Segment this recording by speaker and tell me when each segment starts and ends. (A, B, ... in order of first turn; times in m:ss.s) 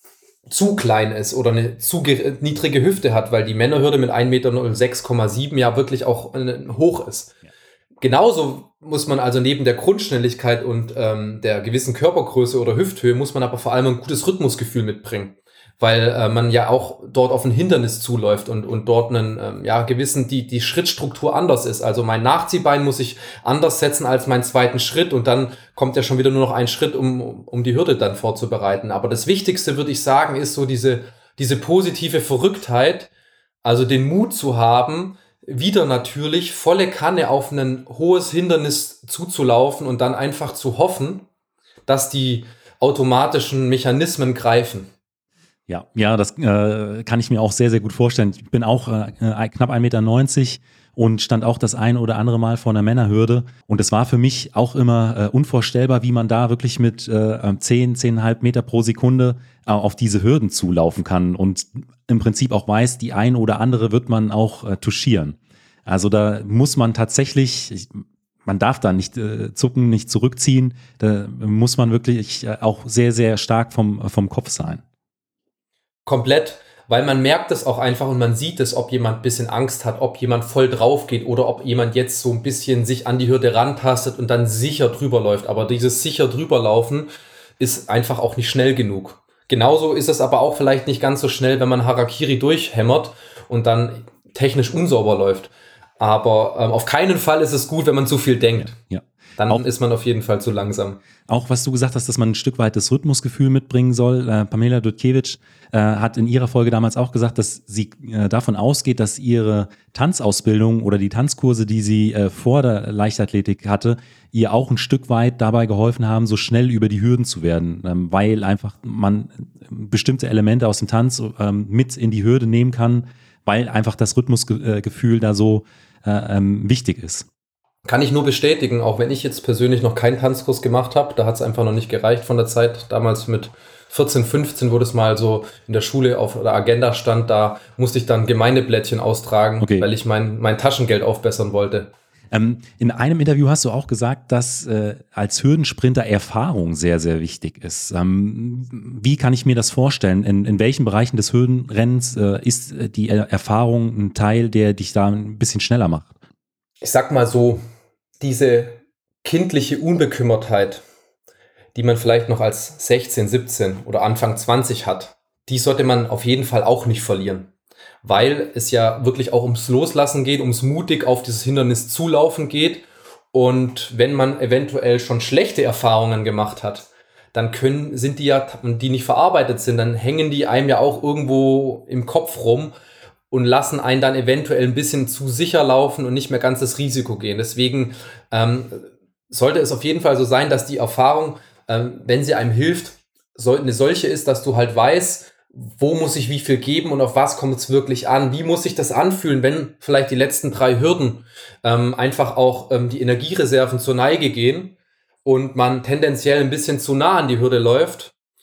0:00.5-0:07.4 A
0:08.0-0:33.1 A
0:33.6-0:41.2 A
0:41.9-0:44.9 A
0:45.7-1:14.8 B
1:16.1-1:38.8 A
1:38.6-1:39.6 B
1:39.4-1:41.0 A
1:41.3-2:07.3 B
2:07.8-2:21.9 A
2:19.6-2:19.9 B
2:22.3-2:36.2 B
2:36.8-2:37.6 A
2:38.2-2:40.8 A
2:41.8-2:47.5 A
2:48.0-3:02.7 A
3:03.3-3:28.1 A